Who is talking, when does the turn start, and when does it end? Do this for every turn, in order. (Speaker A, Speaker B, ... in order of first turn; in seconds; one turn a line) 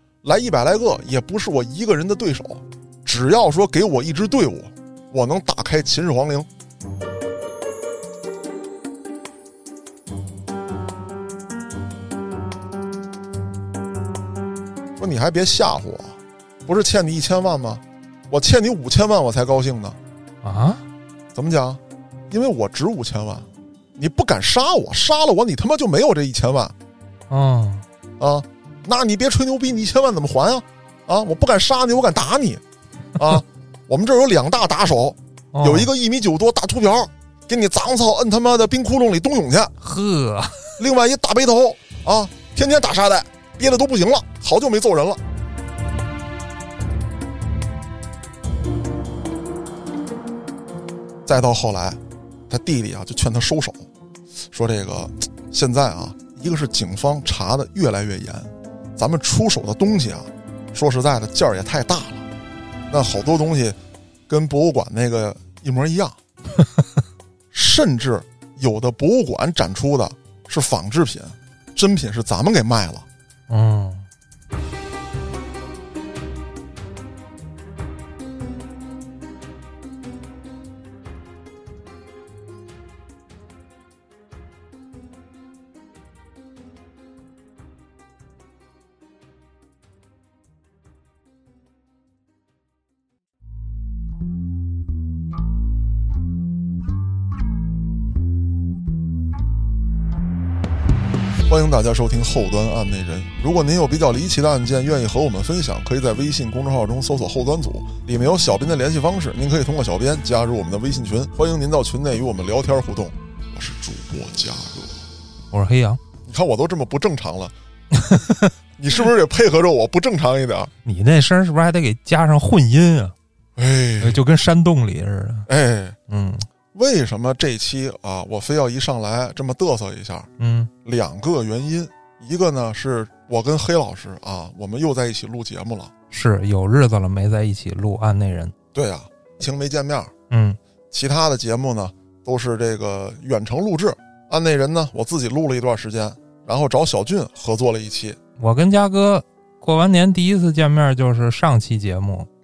Speaker A: 0.2-6.5
Speaker A: 15.0-20.0
Speaker B: 20.4-20.8
Speaker A: 21.3-21.8
Speaker A: 22.3-26.7
Speaker B: 27.3-27.8
Speaker A: 28.2-32.6
Speaker A: 33.2-39.7
Speaker B: 35.5-35.9
Speaker B: 39.8-40.8
Speaker A: 40.8-45.2
Speaker A: 51.2-52.0
Speaker A: 52.5-53.8
Speaker A: 54.5-62.2
Speaker A: 62.9-63.8
Speaker A: 64.3-66.2
Speaker A: 67.5-73.0
Speaker B: 73.5-74.1
Speaker A: 101.4-115.0
Speaker B: 115.5-116.0
Speaker A: 116.2-117.5
Speaker B: 117.9-118.5
Speaker A: 118.8-120.7
Speaker B: 120.8-123.1
Speaker A: 123.6-124.2
Speaker B: 124.0-125.5
Speaker A: 125.5-126.0
Speaker B: 126.1-126.5
Speaker A: 126.7-130.3
Speaker B: 130.4-130.7
Speaker A: 130.8-135.9
Speaker B: 136.1-138.5
Speaker A: 138.7-140.1
Speaker B: 140.3-140.6
Speaker A: 140.9-148.2
Speaker B: 148.4-152.3